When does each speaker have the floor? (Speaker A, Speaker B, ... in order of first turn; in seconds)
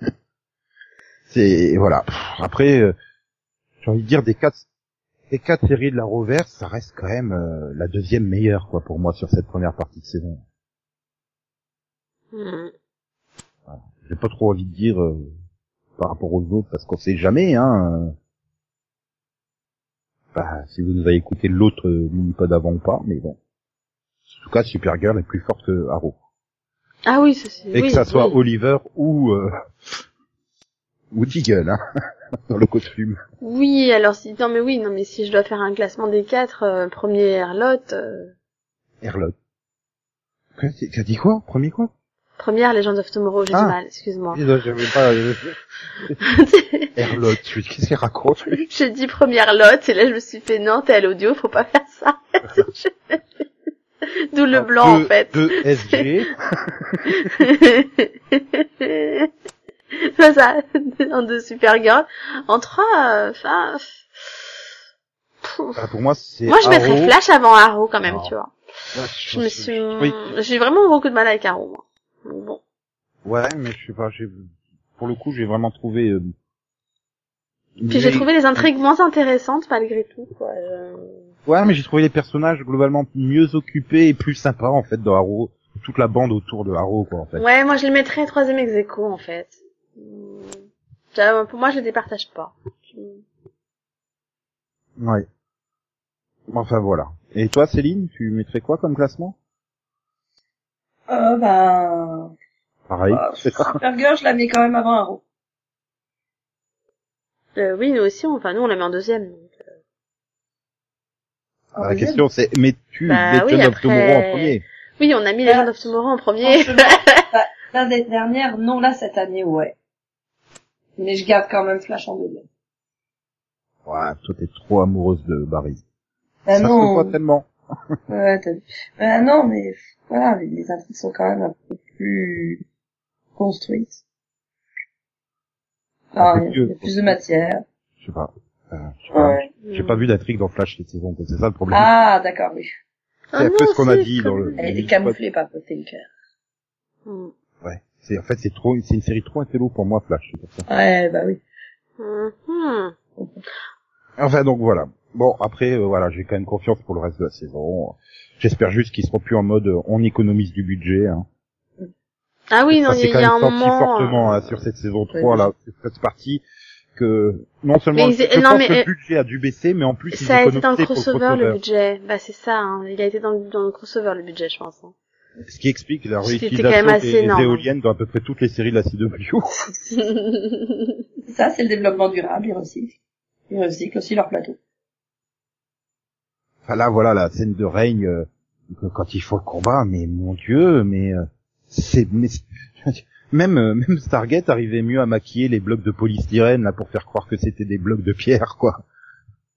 Speaker A: 1.3-2.9, 3.8-4.6, 5.3-10.4, 13.7-15.3, 16.0-18.1, 20.3-23.4, 24.3-26.1, 27.7-29.5, 31.1-31.8, 32.5-33.2, 39.0-39.3, 40.6-41.9, 43.5-43.8, 44.3-46.2, 47.0-48.6, 54.5-57.0, 65.8-67.1, 68.0-68.3, 68.9-70.2, 73.2-76.3, 77.8-78.7, 81.5-87.4, 95.0-95.2, 96.5-99.3, 102.9-103.8, 111.8-114.6, 123.8-125.8, 126.5-127.5, 136.2-137.2, 138.0-141.9, 143.3-145.2, 147.6-150.7, 154.2-161.2, 162.7-166.4, 166.9-171.6, 175.4-179.4, 186.7-198.8
Speaker B: 12.3-12.7, 27.1-28.3, 33.4-38.3, 42.4-44.4, 46.2-46.9, 48.6-53.2, 54.3-56.0, 57.1-59.3, 60.1-64.0, 65.4-65.8, 66.5-68.5, 69.3-72.6, 77.9-81.2, 87.4-90.6, 91.1-93.2, 107.5-109.5, 113.1-117.2, 139.6-140.0, 143.3-144.6, 147.1-147.3, 152.0-152.9, 162.5-164.4, 167.9-168.9, 170.1-174.9, 176.2-177.6, 179.9-180.9
Speaker C: 101.1-102.3, 103.1-105.2, 111.7-112.2, 115.4-115.9, 116.4-119.8, 121.0-122.4, 126.5-127.1, 128.1-132.6, 133.3-134.0, 136.1-137.6, 139.1-139.5, 141.7-142.7, 144.6-146.1, 150.7-151.4, 153.2-153.4, 165.1-165.5, 181.3-182.9, 183.5-184.6